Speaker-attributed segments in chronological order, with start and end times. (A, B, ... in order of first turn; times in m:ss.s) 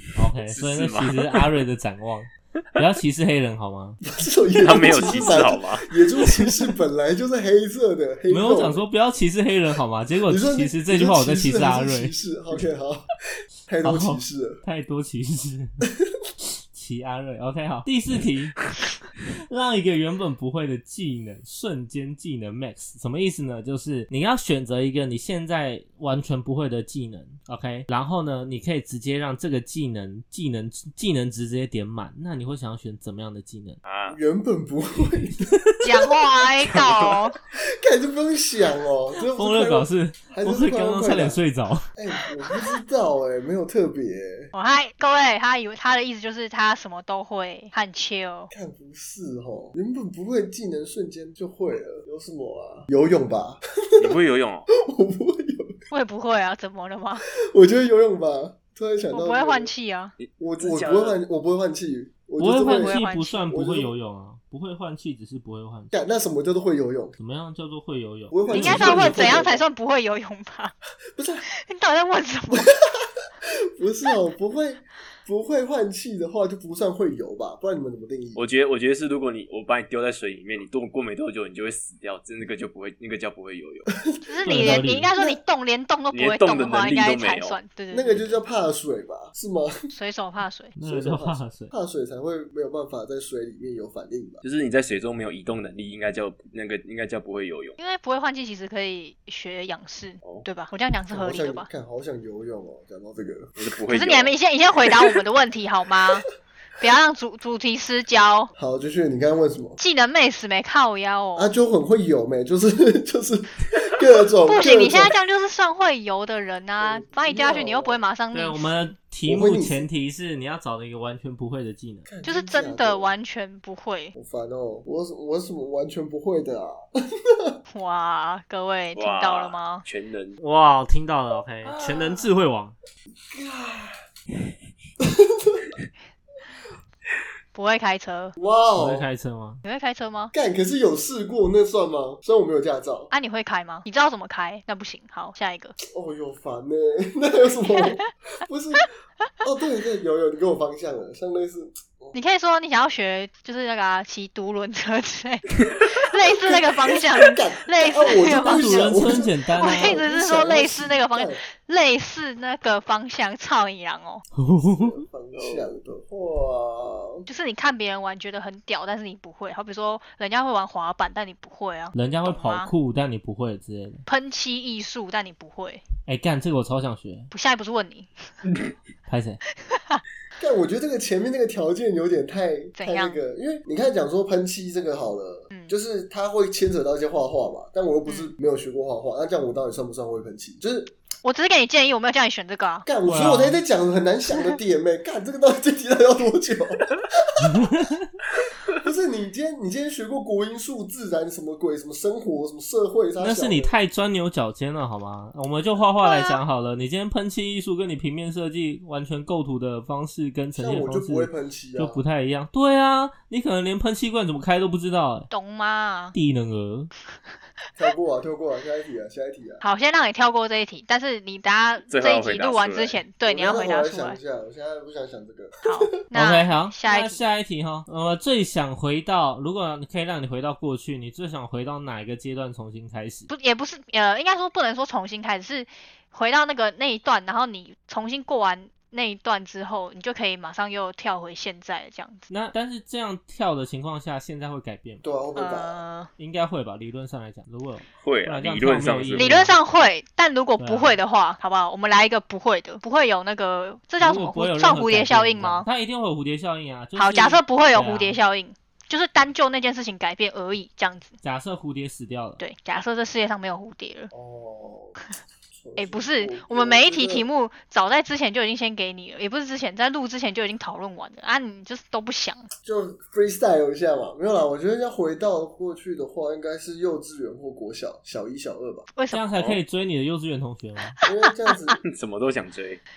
0:00.2-0:04.0 A
0:00.4-0:01.5 B
0:04.0-0:08.8 C
0:04.6-0:06.0 B
0:08.3-0:12.1 A
0:10.3-0:13.2 C
0:13.7-0:14.6 C
0:13.8-0:15.8 A
0:16.4-0:18.6 A
0:19.5-0:33.8 A
0:33.8-0:34.2 B
0:34.1-0:35.6 C
0:35.8-0:37.4 D
0:36.7-0:37.1 B
0:37.8-0:41.4 C
0:39.3-0:41.9 A
0:42.0-0:44.5 C
0:44.5-0:48.5 D
0:48.5-0:54.2 C
0:54.0-0:54.7 B
0:54.8-0:55.8 C
0:55.9-0:57.2 D
0:57.4-0:59.7 C
0:59.1-1:00.1 D
1:00.2-1:01.2 B
1:00.4-1:03.9 C
1:02.4-1:05.9 A
1:02.5-1:03.5 D
1:05.9-1:07.2 C
1:07.2-1:09.4 A
1:08.3-1:09.7 C
1:08.5-1:10.7 D
1:11.2-1:11.5 C
1:11.5-1:12.7 D
1:12.5-1:18.4 C
1:18.3-1:23.9 B
1:23.9-1:25.4 C
1:24.2-1:28.4 D
1:24.4-1:25.1 A
1:26.1-1:27.6 B
1:27.9-1:29.7 C
1:29.9-1:30.7 D
1:30.8-1:31.7 A
1:30.8-1:34.4 C
1:34.4-1:37.8 B
1:37.8-1:41.7 D
1:41.1-1:43.7 C
1:43.6-1:44.3 B
1:43.9-1:46.3 D
1:46.8-1:48.5 D
1:48.5-1:49.8 C
1:49.8-1:51.5 D
1:51.4-1:55.2 C
1:54.4-1:58.9 D
1:56.8-1:58.0 C
1:58.3-2:02.1 A
1:59.2-1:59.9 C
2:02.1-2:03.1 C
2:02.2-2:04.1 D
2:04.1-2:07.6 C
2:07.7-2:09.8 D
2:09.0-2:10.4 B
2:10.4-2:12.7 A
2:11.6-2:12.3 C
2:13.3-2:14.0 C
2:15.0-2:15.7 C
2:17.5-2:18.4 D
2:18.4-2:19.0 C
2:18.8-2:19.6 A
2:19.6-2:20.3 D
2:20.3-2:23.1 C
2:23.1-2:25.8 D
2:25.9-2:28.9 C
2:29.4-2:32.1 C
2:32.1-2:44.2 D
2:36.3-2:41.4 C
2:38.4-2:40.0 A
2:44.3-2:45.0 A
2:44.6-2:47.2 C
2:45.4-2:45.7 B
2:47.2-2:52.7 D
2:51.9-2:54.0 A
2:54.0-2:55.8 D
2:56.0-2:57.3 A
2:57.3-2:58.1 D
2:59.1-2:59.4 A
2:59.6-3:00.0 D
3:00.4-3:10.9 C
3:02.8-3:03.2 D
3:05.5-3:05.8 D
3:08.0-3:08.3 D
3:11.2-3:12.8 D
3:12.8-3:17.7 C
3:13.0-3:13.6 A
3:17.4-3:18.1 A
3:18.7-3:23.7 C
3:23.2-3:35.3 A
3:26.0-3:26.4 D
3:30.6-3:32.0 C
3:35.3-3:36.1 D
3:36.1-3:36.9 A
3:37.7-3:39.6 C
3:39.6-3:44.2 D
3:41.9-3:43.0 B
3:43.2-3:45.9 C
3:45.6-3:47.2 D
3:46.1-3:53.3 A
3:53.3-4:02.3 D
4:02.3-4:05.0 A
4:05.0-4:05.8 C
4:05.4-4:06.1 D
4:06.2-4:09.6 A
4:08.0-4:09.3 B
4:09.1-4:15.7 D
4:10.6-4:11.0 A
4:14.0-4:18.2 A
4:17.0-4:21.2 D
4:21.2-4:22.4 A
4:22.4-4:24.1 D
4:24.1-4:25.0 C
4:25.5-4:27.3 C
4:25.8-4:32.5 D
4:32.6-4:38.9 C
4:38.9-4:39.4 D
4:39.1-4:41.0 A
4:41.0-4:41.8 C
4:41.1-4:41.7 D
4:41.8-4:42.8 B